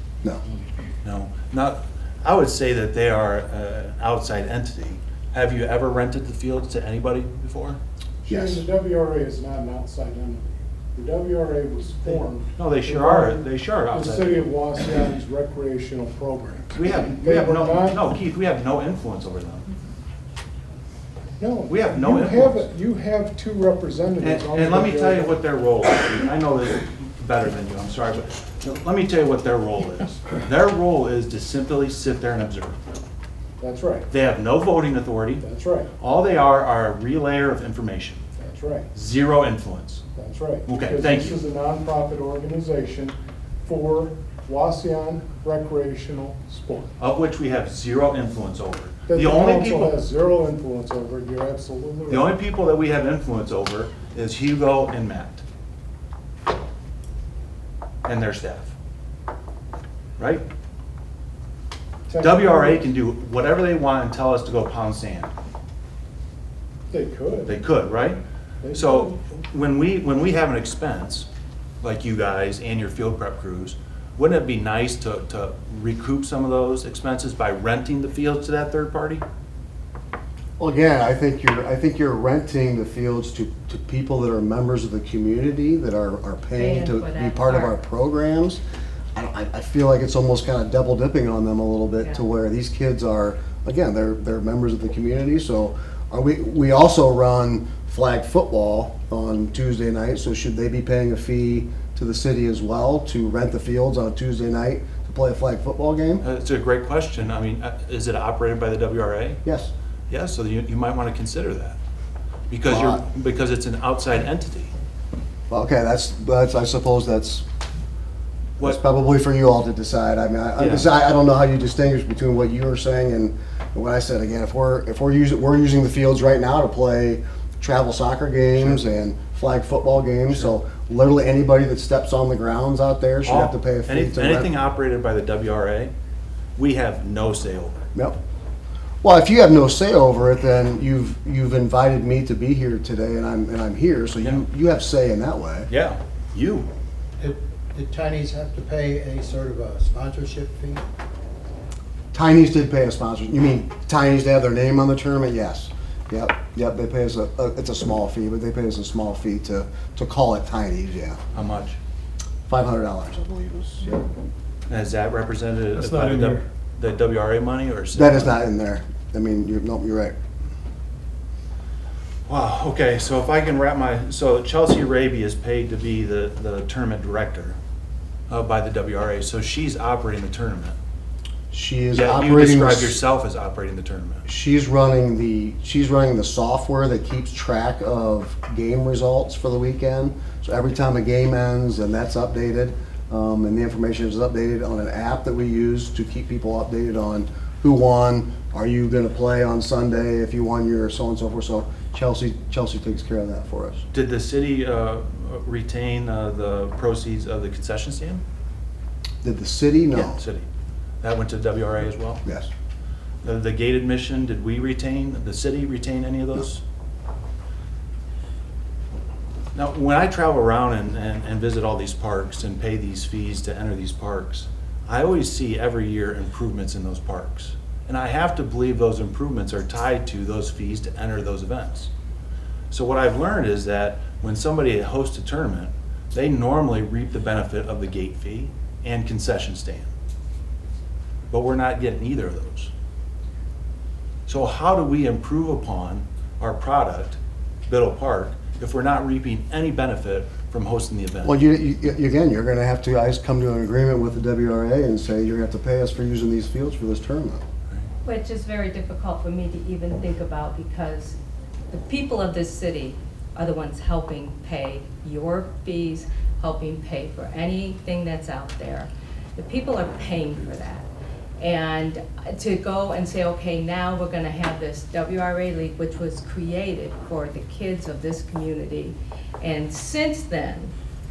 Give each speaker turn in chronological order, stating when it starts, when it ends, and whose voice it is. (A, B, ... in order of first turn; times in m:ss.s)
0:01.0-0:07.8 A
0:08.2-0:18.0 B
0:08.3-0:08.6 C
0:12.0-0:14.4 A
0:16.7-0:19.6 A
0:21.4-0:25.4 B
0:21.7-0:22.6 A
0:24.2-0:32.8 A
0:33.6-0:34.1 B
0:34.1-0:35.4 A
0:35.4-0:35.9 B
0:36.0-0:38.2 A
0:38.4-0:38.9 B
0:38.9-0:40.0 A
0:40.2-0:46.9 B
0:40.7-0:41.4 A
0:47.0-0:49.9 A
0:49.1-0:52.4 B
0:52.1-0:55.4 A
0:58.0-0:58.7 A
1:00.2-1:00.4 A
1:02.1-1:02.8 B
1:02.2-1:05.3 A
1:06.9-1:07.5 B
1:07.4-1:08.2 A
1:08.6-1:09.2 B
1:08.7-1:11.3 A
1:11.8-1:19.2 A
1:20.6-1:28.6 C
1:26.6-1:27.8 D
1:29.1-1:46.2 C
1:46.2-1:49.4 A
1:49.4-1:49.7 C
1:50.1-1:51.8 A
1:52.5-1:54.7 A
1:52.7-1:53.0 C
1:55.5-1:57.4 C
1:58.6-2:14.5 C
2:00.6-2:00.9 A
2:13.2-2:15.9 A
2:16.6-2:17.8 A
2:19.0-2:25.7 C
2:25.7-2:26.7 A
2:27.2-2:30.8 E
2:32.1-2:41.2 C
2:41.3-2:41.8 A
2:42.5-2:44.0 C
2:44.7-2:48.4 A
2:47.9-2:50.1 C
2:52.3-2:57.6 A
2:58.3-3:00.8 A
3:01.5-3:03.0 C
3:01.9-3:04.2 A
3:04.2-3:23.8 C
3:23.9-3:28.2 A
3:29.2-3:30.2 C
3:29.9-3:30.4 A
3:31.0-3:32.2 A
3:32.2-3:32.5 C
3:33.2-3:36.6 A
3:39.5-3:51.9 A
3:52.7-3:59.9 A
4:01.3-4:02.7 A
4:04.3-4:11.4 A
4:11.2-4:17.4 C
4:18.0-4:21.2 D
4:21.7-4:30.8 D
4:31.4-4:40.7 D